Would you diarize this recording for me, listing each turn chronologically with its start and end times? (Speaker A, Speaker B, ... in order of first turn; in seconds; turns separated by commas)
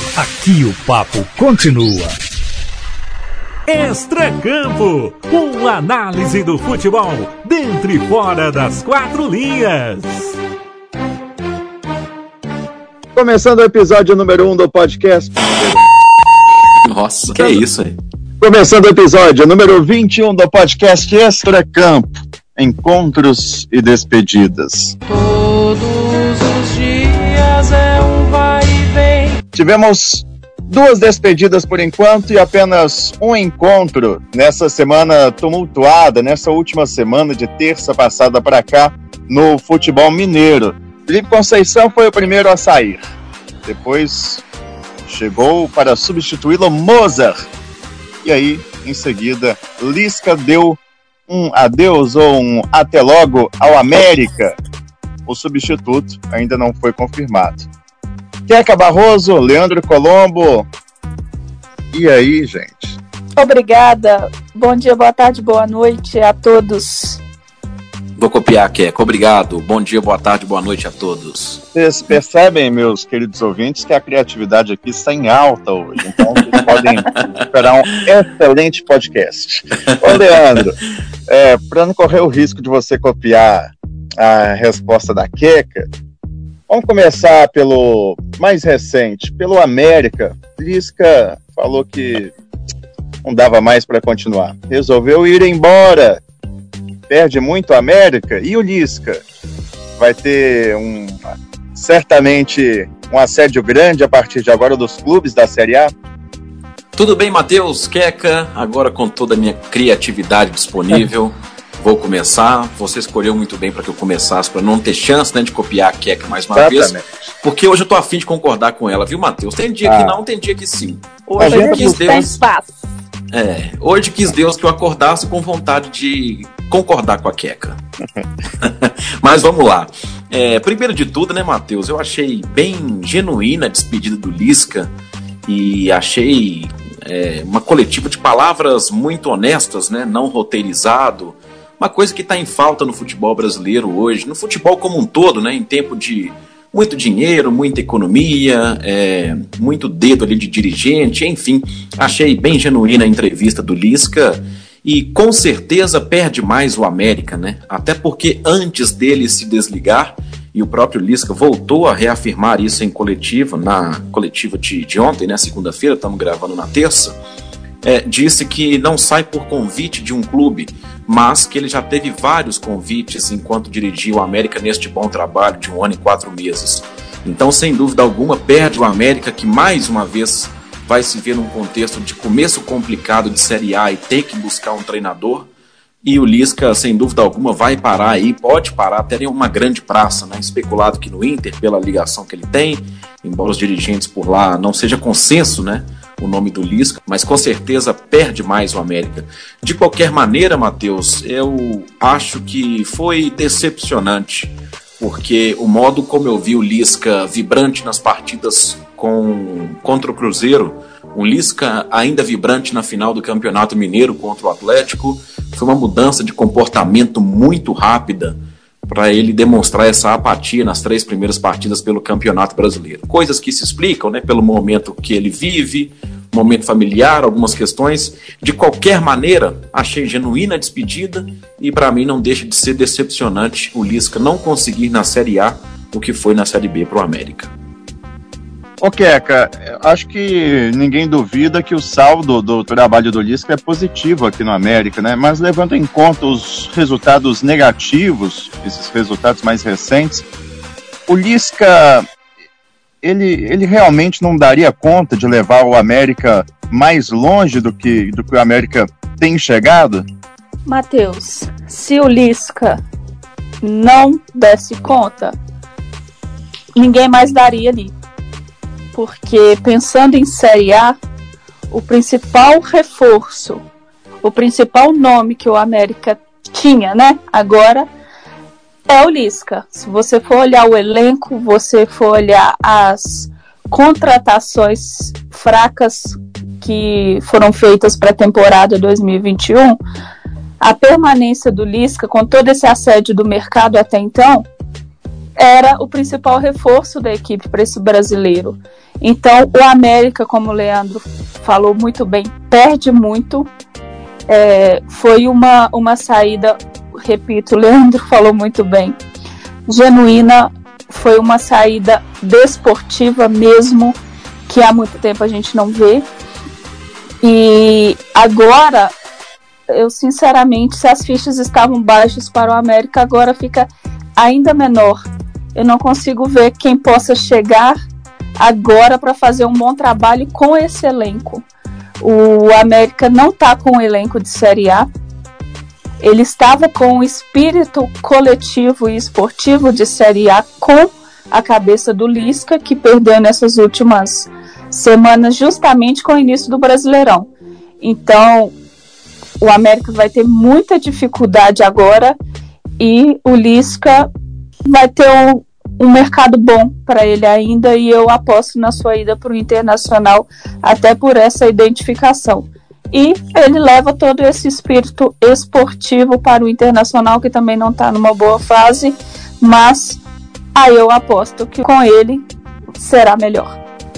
Speaker A: 0.1-2.2, Speaker A: 3.6-10.3, Speaker B: 13.1-15.8, Speaker C: 16.8-17.9, Speaker B: 17.3-17.6, Speaker B: 18.4-24.9, Speaker D: 25.1-29.4, Speaker B: 29.5-43.0, Speaker B: 43.6-44.4, Speaker B: 45.0-47.5, Speaker B: 48.2-54.5, Speaker B: 55.2-57.7, Speaker B: 58.5-60.7, Speaker B: 61.9-63.0, Speaker E: 63.4-67.2, Speaker C: 68.2-71.6, Speaker B: 71.7-85.9, Speaker C: 76.3-76.8, Speaker B: 86.7-92.3, Speaker B: 93.2-96.2, Speaker B: 97.1-99.2, Speaker B: 100.0-105.9, Speaker C: 106.9-122.4, Speaker B: 116.5-117.1, Speaker B: 119.8-120.2, Speaker B: 121.4-122.3, Speaker E: 121.5-122.7, Speaker C: 123.3-127.8, Speaker C: 128.6-134.9, Speaker C: 135.5-167.2, Speaker C: 167.8-185.5, Speaker C: 186.0-218.3, Speaker C: 218.9-237.5, Speaker B: 238.8-250.2, Speaker B: 251.1-252.1, Speaker B: 253.0-260.1, Speaker E: 260.6-262.8, Speaker E: 263.6-265.4, Speaker E: 266.8-267.9, Speaker E: 268.9-270.9, Speaker E: 271.7-273.6, Speaker E: 274.2-277.9, Speaker E: 278.9-289.8, Speaker E: 290.6-294.4, Speaker E: 295.4-303.5, Speaker E: 304.3-309.0, Speaker E: 309.7-316.1, Speaker E: 317.2-318.9, Speaker E: 319.7-325.0, Speaker E: 325.5-327.8, Speaker E: 328.4-331.4, Speaker E: 332.0-334.9, Speaker E: 336.0-347.3, Speaker E: 347.8-348.5, Speaker E: 349.4-352.1, Speaker E: 352.8-354.1, Speaker E: 354.6-370.0, Speaker E: 370.5-372.2, Speaker E: 372.8-373.5